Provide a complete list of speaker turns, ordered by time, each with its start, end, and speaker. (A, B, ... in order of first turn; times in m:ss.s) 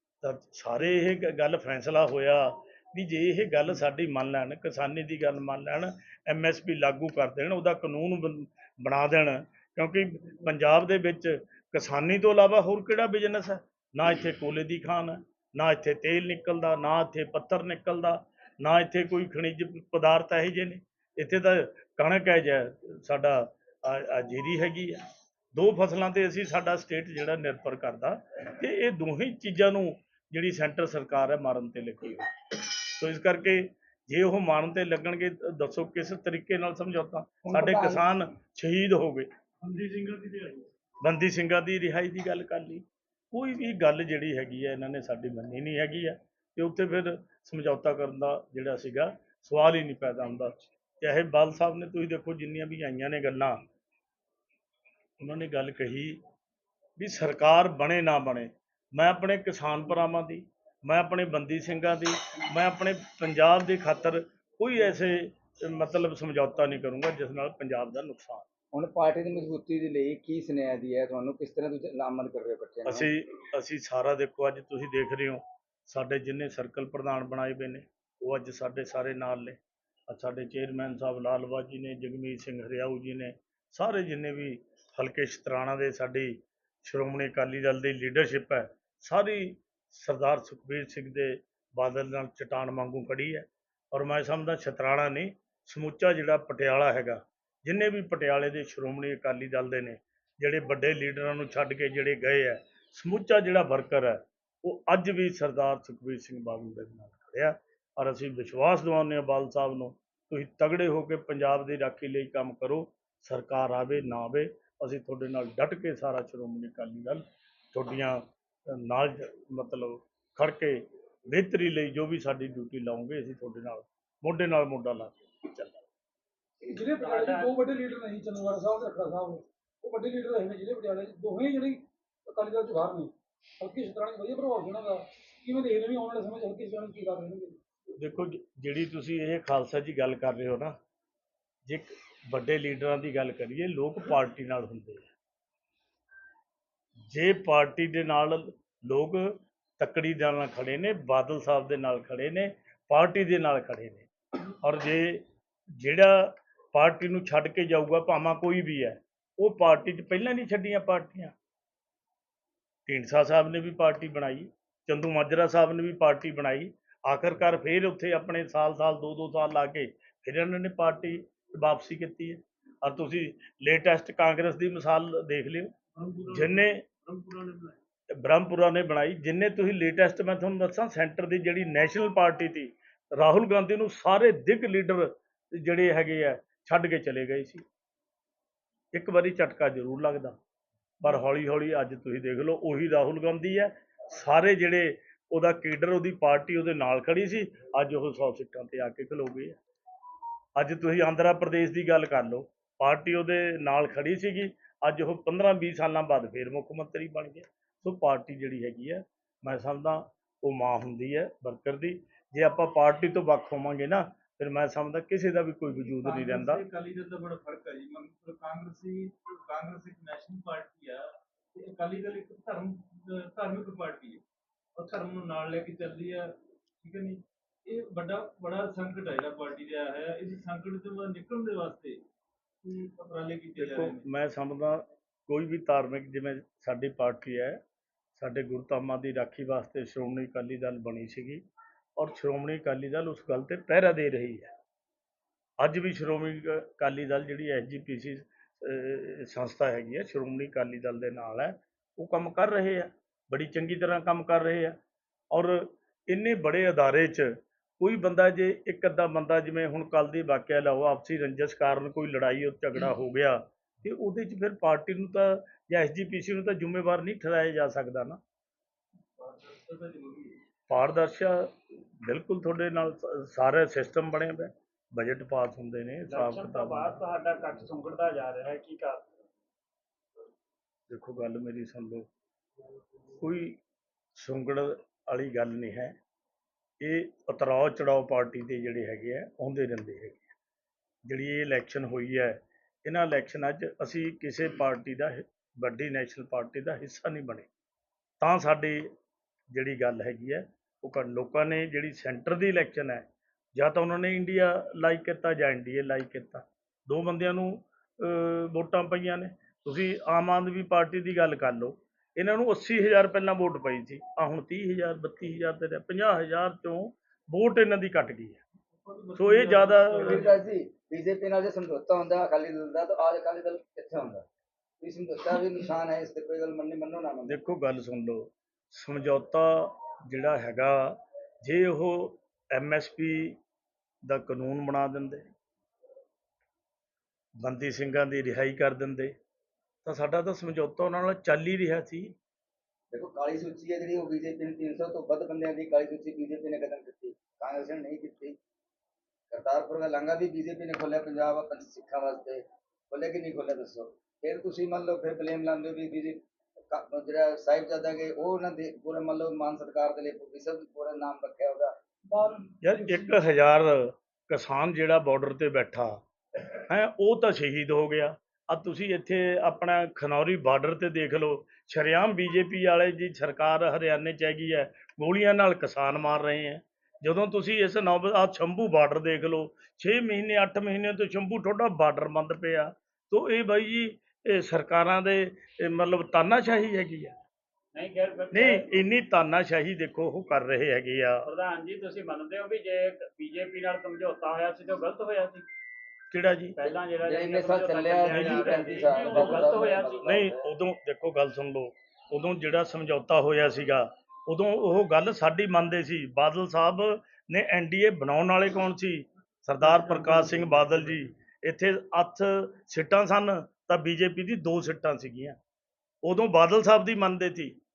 0:00.2-0:25.0 A
0:25.5-0:39.3 A
0:37.5-0:38.0 B
0:39.6-0:40.6 C
0:41.0-0:53.6 A
0:55.2-0:56.2 A
0:57.0-1:08.4 A
1:08.7-1:13.1 D
1:12.9-2:05.9 A
2:06.6-2:17.6 B
2:07.0-2:07.3 C
2:18.0-2:20.7 A
2:21.6-2:25.1 A
2:27.1-2:41.3 A
2:42.9-2:55.7 A
2:56.0-2:57.8 C
2:56.2-2:56.8 A
2:58.1-3:07.6 A
3:08.9-3:10.4 A
3:11.0-3:19.6 A
3:20.6-3:36.6 A
3:35.7-3:44.2 C
3:44.8-3:52.0 C
3:52.6-3:54.0 C
3:53.6-3:57.6 A
3:58.2-4:01.4 A
4:02.0-4:04.5 A
4:05.6-4:14.8 A
4:15.3-4:28.2 A
4:29.2-4:30.4 C
4:30.7-4:37.0 A
4:36.1-4:38.9 C
4:36.8-4:39.0 E
4:40.9-4:42.1 A
4:43.1-4:43.6 A
4:44.1-4:46.0 A
4:46.8-4:50.3 A
4:51.0-4:57.5 A
4:58.2-4:58.9 A
4:59.5-5:18.4 A
5:18.8-5:20.4 C
5:19.1-5:20.3 A
5:20.0-5:24.2 D
5:24.8-5:27.4 D
5:27.3-5:33.4 A
5:34.1-5:35.3 A
5:37.4-5:39.1 A
5:39.8-5:42.2 A
5:42.9-5:48.4 D
5:49.3-6:01.7 D
6:02.1-6:03.2 B
6:02.6-6:06.0 A
6:06.6-6:27.2 A
6:27.7-6:28.6 E
6:28.3-6:31.3 A
6:31.2-6:35.4 E
6:36.1-6:36.6 A
6:36.6-6:40.0 E
6:37.0-6:40.5 D
6:38.0-6:40.0 C
6:40.0-6:55.4 A
6:56.0-6:57.6 A